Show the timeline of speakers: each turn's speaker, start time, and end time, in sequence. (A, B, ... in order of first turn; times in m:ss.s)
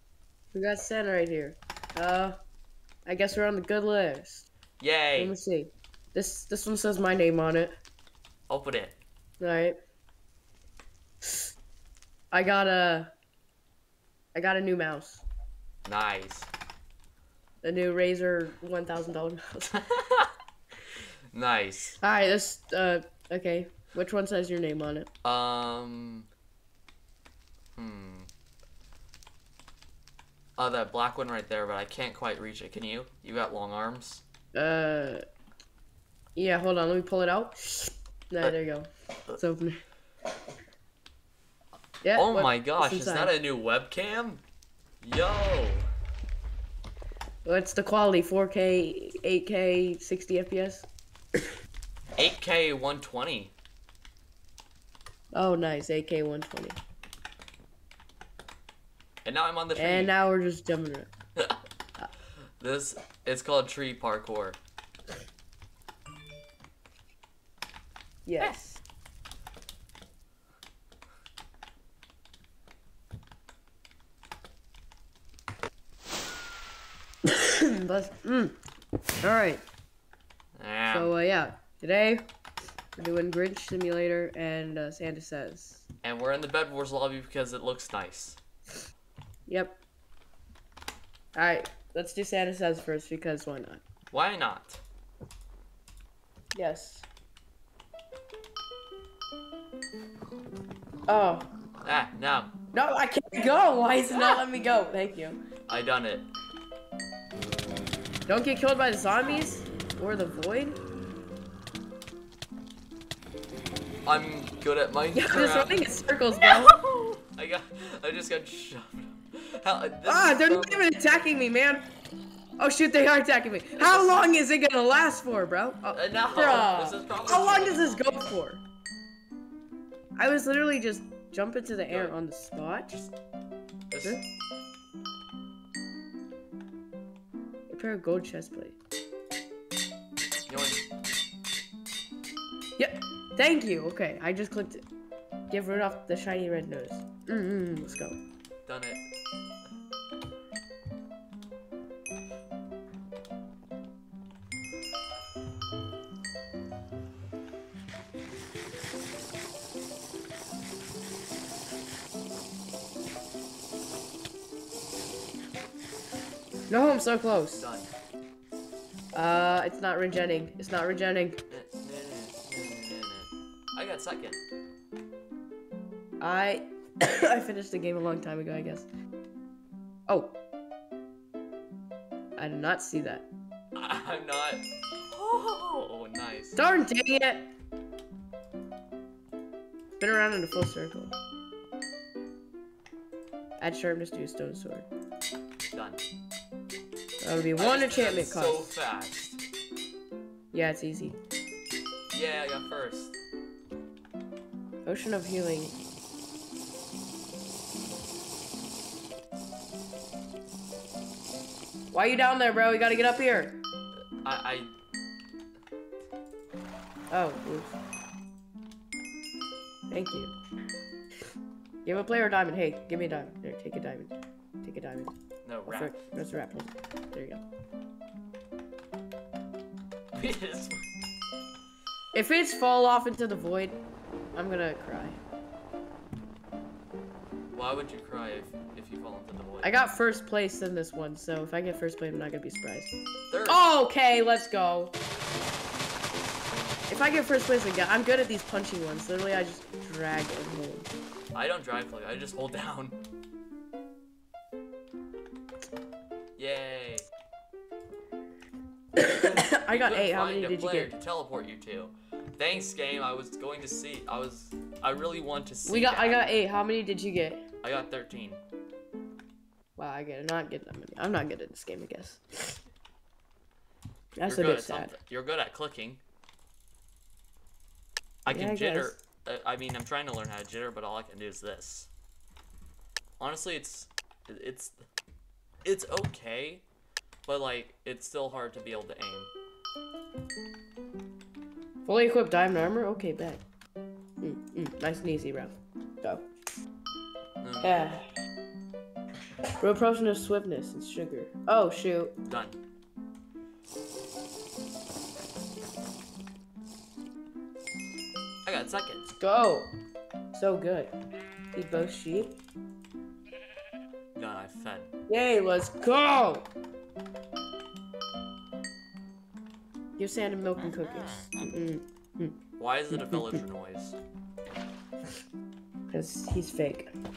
0:00.5-0:02.4 A
0:03.0-0:04.5 A
0:04.8-0:05.3 B
0:05.2-0:07.7 A
0:08.5-0:09.0 B
0:09.4-0:09.8 A
0:11.2-0:11.5 A
0:12.3-0:13.1 A
0:14.3-0:15.2 A
0:15.8-0:16.5 B
0:17.6-0:19.8 A
0:19.7-0:20.3 B
0:21.3-0:22.0 B
0:22.0-0:25.1 A
0:25.2-0:26.3 B
0:27.7-0:28.3 B
0:30.6-0:34.2 B
0:34.5-0:35.2 A
0:36.4-0:39.8 A
0:42.0-0:43.3 A
0:42.1-0:44.4 B
0:45.0-0:45.9 B
0:47.4-0:50.9 A
0:52.2-0:53.5 B
0:55.3-0:56.8 A
0:59.2-1:00.1 B
0:59.7-1:01.1 A
1:02.6-1:04.6 B
1:08.2-1:08.8 A
1:17.2-1:18.6 A
1:19.2-1:19.6 A
1:20.5-1:21.1 B
1:20.9-1:22.2 A
1:23.0-1:25.8 A
1:26.0-1:28.4 B
1:29.5-1:29.8 A
1:31.3-1:33.8 A
1:34.1-1:34.8 B
1:36.5-1:37.0 A
1:41.1-1:41.5 A
1:41.8-1:42.5 B
1:42.7-1:45.4 A
1:45.7-1:46.3 B
1:48.3-1:50.8 A
1:54.0-2:00.9 B
1:55.1-1:56.7 A
2:00.0-2:01.8 A
2:02.6-2:08.6 A
2:03.8-2:04.2 B
2:05.9-2:08.3 B
2:10.2-2:13.0 A
2:11.9-2:12.1 B
2:13.9-2:14.2 B
2:17.7-2:18.8 A
2:20.5-2:20.8 B
2:22.8-2:24.8 A
2:25.5-2:28.2 A
2:28.6-2:29.0 B
2:46.7-2:47.7 A
2:47.6-2:47.9 B
2:49.1-2:51.4 A
2:51.5-2:54.4 B
2:56.2-2:58.9 A
3:00.1-3:00.4 A
3:02.4-3:03.3 A
3:03.7-3:06.6 B
3:06.6-3:07.5 A
3:10.0-3:11.1 A
3:13.6-3:14.9 A
3:15.7-3:16.0 B
3:17.2-3:18.7 A
3:17.6-3:19.4 B
3:20.5-3:21.2 A
3:22.1-3:23.2 B
3:24.8-3:25.8 A
3:31.9-3:33.6 A
3:34.2-3:34.7 B
3:37.1-3:37.8 A
3:39.9-3:40.3 A
3:41.8-3:45.1 A
3:45.4-3:46.0 B
3:45.6-3:47.4 A
3:50.1-3:50.9 B
3:52.1-3:53.8 A
3:54.3-3:55.2 A
3:57.5-3:59.7 B
3:59.6-4:02.9 A
4:03.3-4:03.6 B
4:03.5-4:05.0 A
4:06.9-4:10.9 A
4:11.3-4:13.0 B
4:16.4-4:17.1 B
4:19.0-4:20.9 A
4:19.0-4:26.2 B
4:25.6-4:27.4 A
4:27.6-4:28.4 B
4:29.8-4:32.6 A
4:34.2-4:35.0 A
4:34.2-4:36.0 B
4:38.2-4:41.9 B
4:38.3-4:39.0 A
4:43.2-4:44.8 B
4:45.6-4:46.6 B
4:47.2-4:49.3 B
4:51.8-4:53.4 A
4:54.2-4:56.2 A
4:57.4-4:57.9 B
4:57.6-4:58.0 A
4:59.6-5:02.1 A
5:02.2-5:02.6 B
5:08.4-5:09.1 B
5:09.2-5:09.7 A
5:10.3-5:10.9 A
5:11.5-5:12.4 A
5:14.1-5:14.9 B
5:15.1-5:16.5 A
5:20.0-5:22.4 A
5:22.6-5:24.0 B
5:22.9-5:23.4 A
5:25.9-5:26.9 A